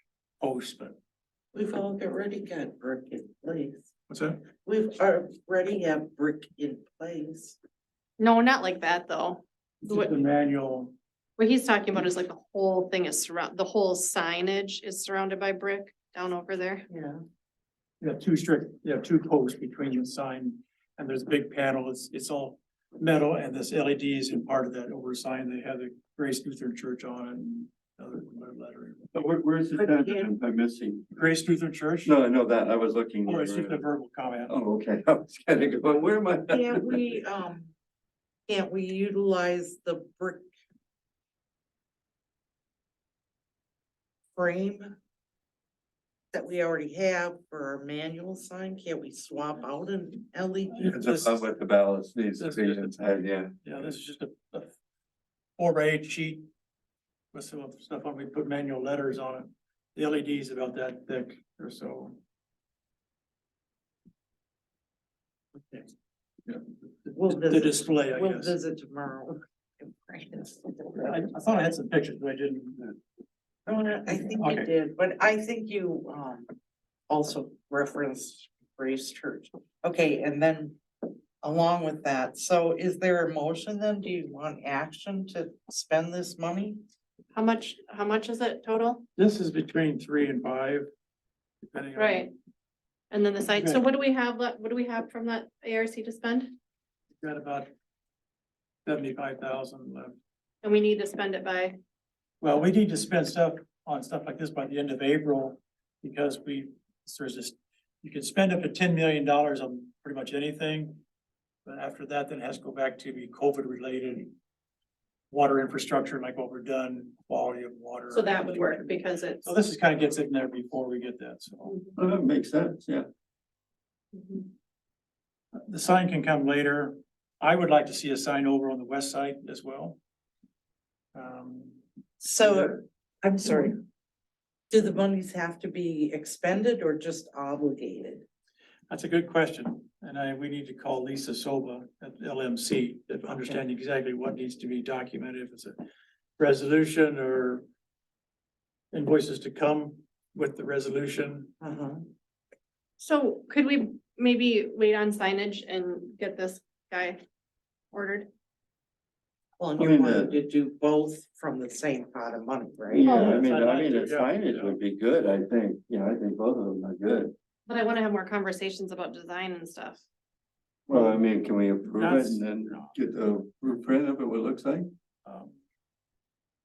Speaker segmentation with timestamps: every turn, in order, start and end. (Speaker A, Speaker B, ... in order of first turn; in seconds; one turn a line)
Speaker A: 0.4-0.9
Speaker B: 1.5-3.9
Speaker A: 4.1-4.4
Speaker B: 4.6-7.6
Speaker C: 8.2-10.1
Speaker A: 9.8-10.9
Speaker C: 11.4-16.9
Speaker B: 16.9-17.2
Speaker A: 18.0-29.1
Speaker D: 29.1-31.1
Speaker B: 29.8-30.3
Speaker A: 31.1-32.1
Speaker D: 32.0-33.8
Speaker A: 33.2-34.5
Speaker D: 34.5-37.0
Speaker B: 36.5-37.7
Speaker B: 38.5-40.5
Speaker B: 44.3-45.0
Speaker B: 46.3-51.2
Speaker A: 50.8-51.4
Speaker D: 50.8-53.5
Speaker A: 52.4-54.7
Speaker A: 55.6-56.5
Speaker A: 57.3-62.2
Speaker B: 65.5-65.9
Speaker A: 66.5-68.5
Speaker B: 67.1-71.2
Speaker A: 71.0-73.0
Speaker B: 73.7-76.5
Speaker A: 74.2-74.7
Speaker B: 77.1-86.8
Speaker C: 87.3-89.0
Speaker A: 89.2-90.9
Speaker A: 91.7-92.3
Speaker C: 92.0-92.3
Speaker C: 93.1-96.5
Speaker A: 93.6-93.8
Speaker A: 97.2-97.7
Speaker A: 98.8-100.1
Speaker C: 100.6-101.8
Speaker A: 102.4-111.0
Speaker A: 111.7-114.3
Speaker A: 115.3-121.7
Speaker C: 118.1-119.5
Speaker C: 121.7-121.9
Speaker D: 122.0-123.1
Speaker C: 124.1-124.5
Speaker A: 125.5-130.0
Speaker A: 131.1-131.8
Speaker B: 132.2-133.8
Speaker A: 132.4-132.7
Speaker B: 134.7-138.2
Speaker A: 138.9-145.8
Speaker A: 146.4-147.6
Speaker A: 148.9-151.5
Speaker B: 151.6-152.1
Speaker C: 153.0-157.2
Speaker C: 157.9-158.3
Speaker B: 159.6-163.2
Speaker D: 159.8-160.4
Speaker D: 162.9-167.3
Speaker A: 163.0-164.8
Speaker C: 163.0-163.4
Speaker C: 167.7-170.0
Speaker D: 170.9-174.9
Speaker A: 170.9-171.2
Speaker A: 171.8-173.0
Speaker A: 175.2-175.6